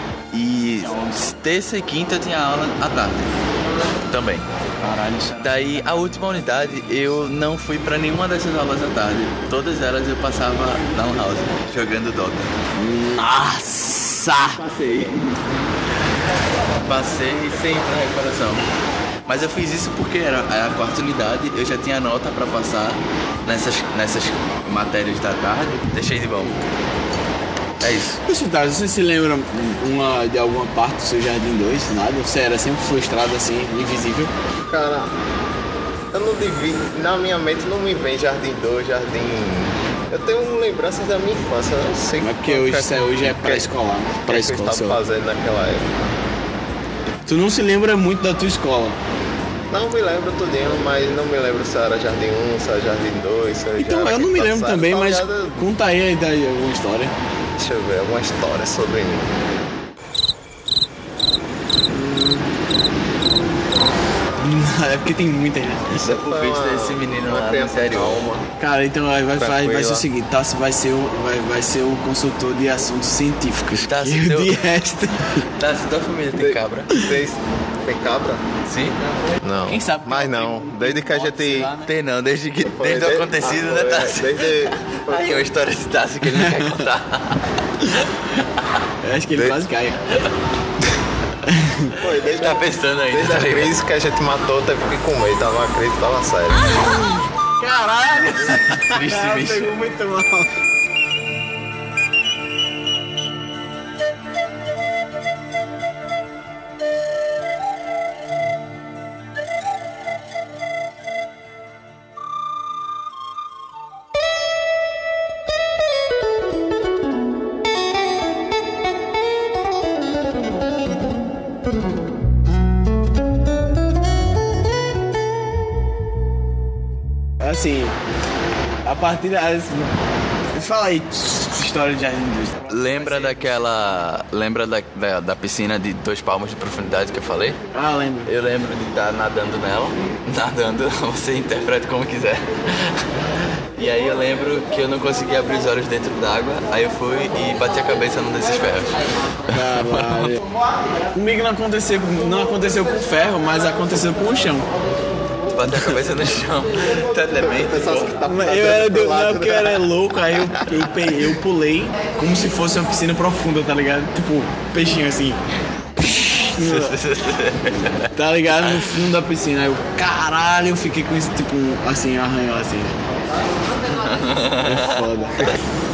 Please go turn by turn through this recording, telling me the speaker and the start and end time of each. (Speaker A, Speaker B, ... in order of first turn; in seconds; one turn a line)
Speaker A: 0.3-3.3
Speaker A: 4.1-4.5
Speaker B: 4.8-5.4
Speaker A: 5.4-12.5
Speaker B: 12.8-14.6
Speaker A: 14.5-15.4
Speaker A: 16.9-18.6
Speaker A: 19.3-26.6
Speaker A: 27.8-28.2
Speaker B: 28.2-34.3
Speaker C: 34.7-35.1
Speaker C: 36.1-43.7
Speaker B: 42.2-45.0
Speaker C: 44.2-45.9
Speaker B: 47.3-49.0
Speaker C: 49.7-55.7
Speaker B: 53.8-57.1
Speaker C: 57.6-59.3
Speaker B: 62.0-62.5
Speaker B: 64.4-66.0
Speaker A: 65.9-68.3
Speaker C: 66.0-68.5
Speaker B: 68.6-75.5
Speaker C: 69.4-70.1
Speaker A: 73.8-74.8
Speaker A: 75.4-76.9
Speaker C: 76.3-78.4
Speaker A: 78.7-79.0
Speaker C: 79.4-81.7
Speaker B: 79.7-81.9
Speaker A: 81.9-88.1
Speaker C: 82.7-85.5
Speaker B: 86.3-86.8
Speaker B: 89.0-90.0
Speaker B: 91.5-92.0
Speaker C: 92.0-96.7
Speaker A: 92.0-93.8
Speaker B: 97.6-100.5
Speaker A: 98.3-99.7
Speaker B: 127.4-127.9
Speaker B: 128.9-129.9
Speaker B: 130.5-133.6
Speaker A: 132.7-137.6
Speaker B: 137.7-138.3
Speaker A: 138.3-149.0
Speaker B: 149.5-150.4
Speaker A: 149.5-150.4
Speaker B: 151.1-154.7
Speaker A: 155.5-158.1
Speaker B: 155.7-155.9
Speaker C: 157.4-159.9
Speaker B: 158.2-165.4
Speaker B: 166.0-166.9
Speaker A: 166.6-168.1
Speaker B: 168.1-173.0
Speaker A: 173.9-175.0
Speaker B: 174.6-175.5